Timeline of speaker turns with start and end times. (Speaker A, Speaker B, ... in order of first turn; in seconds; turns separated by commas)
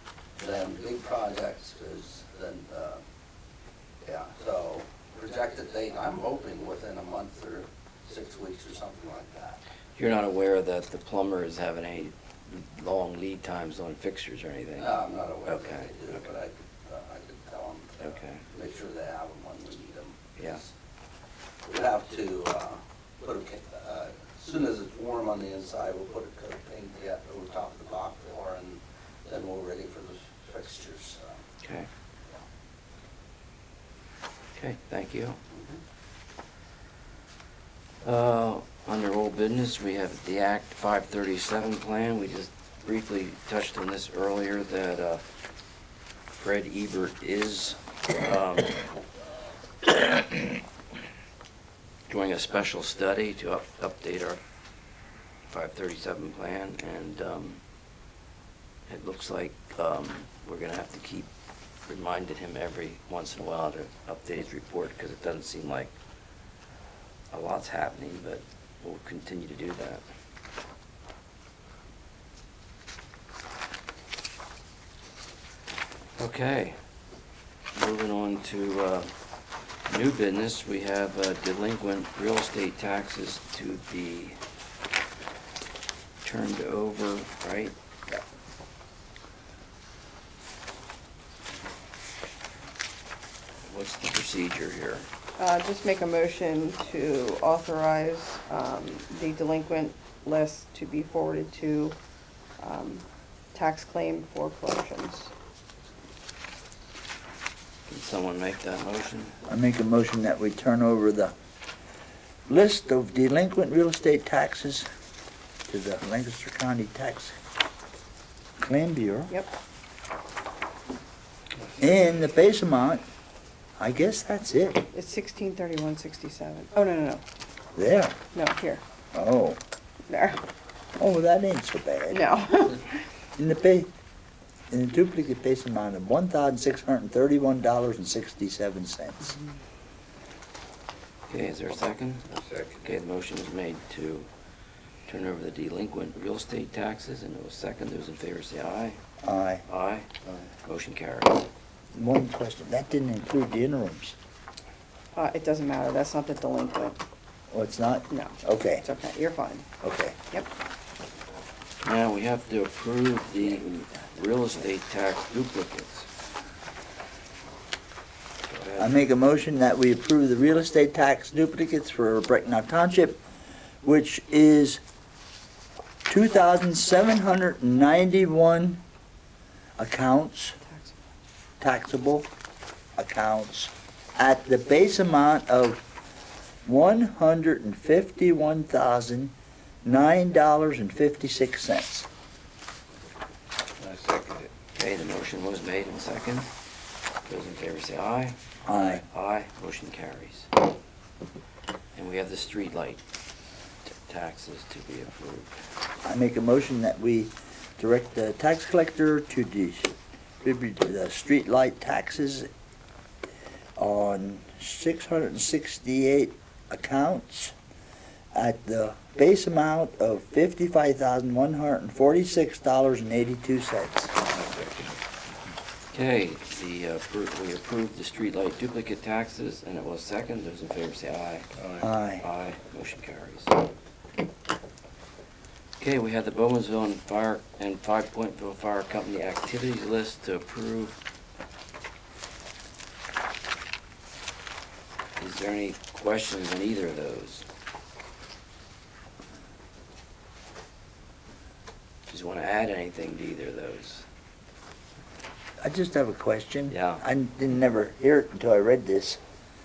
Speaker A: 0.4-3.0, Speaker A: 4.0-9.6, Speaker B: 10.0-16.3, Speaker A: 14.8-20.7, Speaker B: 18.0-18.4, Speaker A: 21.7-31.4, Speaker B: 31.6-31.9, Speaker B: 34.5-35.4, Speaker B: 38.0-45.2, Speaker B: 46.3-48.9, Speaker B: 49.8-50.6, Speaker B: 52.1-54.4, Speaker B: 55.5-57.6, Speaker B: 58.9-61.3, Speaker B: 61.9-65.9, Speaker B: 67.3-70.0, Speaker B: 76.2-76.8, Speaker B: 77.8-79.1, Speaker B: 79.9-84.4, Speaker B: 86.2-87.8, Speaker B: 93.7-95.1, Speaker C: 95.4-102.0, Speaker C: 102.6-105.3, Speaker B: 107.9-109.3, Speaker D: 109.5-111.3, Speaker D: 112.5-114.9, Speaker D: 115.7-117.3, Speaker D: 118.6-119.3, Speaker D: 121.8-123.0, Speaker D: 123.8-124.8, Speaker C: 124.9-127.2, Speaker D: 127.8-128.2, Speaker C: 128.3-128.8, Speaker D: 129.1-129.6, Speaker C: 130.1-130.4, Speaker D: 131.0-132.2, Speaker C: 132.1-133.0, Speaker D: 133.4-133.9, Speaker D: 134.7-139.4, Speaker B: 141.3-142.3, Speaker E: 142.4-142.8, Speaker B: 142.8-144.3, Speaker B: 145.1-149.0, Speaker D: 149.2-149.7, Speaker B: 149.7-150.1, Speaker B: 150.7-151.5, Speaker D: 151.9-154.2, Speaker C: 155.1-157.0, Speaker D: 157.5-158.8, Speaker C: 158.1-159.7, Speaker D: 159.8-160.2, Speaker B: 161.8-166.1, Speaker B: 168.5-168.9, Speaker D: 168.8-173.2, Speaker D: 173.8-174.8, Speaker D: 176.1-178.8, Speaker D: 179.8-180.6, Speaker C: 180.7-180.9, Speaker D: 181.6-182.3, Speaker D: 183.0-185.8, Speaker D: 186.7-192.1, Speaker E: 193.8-194.5, Speaker B: 194.7-196.5, Speaker B: 197.3-200.5, Speaker D: 198.7-199.0, Speaker B: 201.9-203.0, Speaker B: 203.9-205.5, Speaker D: 206.0-212.5, Speaker D: 213.8-217.5, Speaker D: 218.3-224.1, Speaker E: 224.4-224.9, Speaker B: 225.9-231.5, Speaker E: 231.6-231.9, Speaker D: 231.8-232.2, Speaker B: 232.2-233.7, Speaker B: 235.8-241.0, Speaker B: 245.2-247.4, Speaker B: 252.1-254.1, Speaker D: 255.6-259.2, Speaker B: 256.7-257.0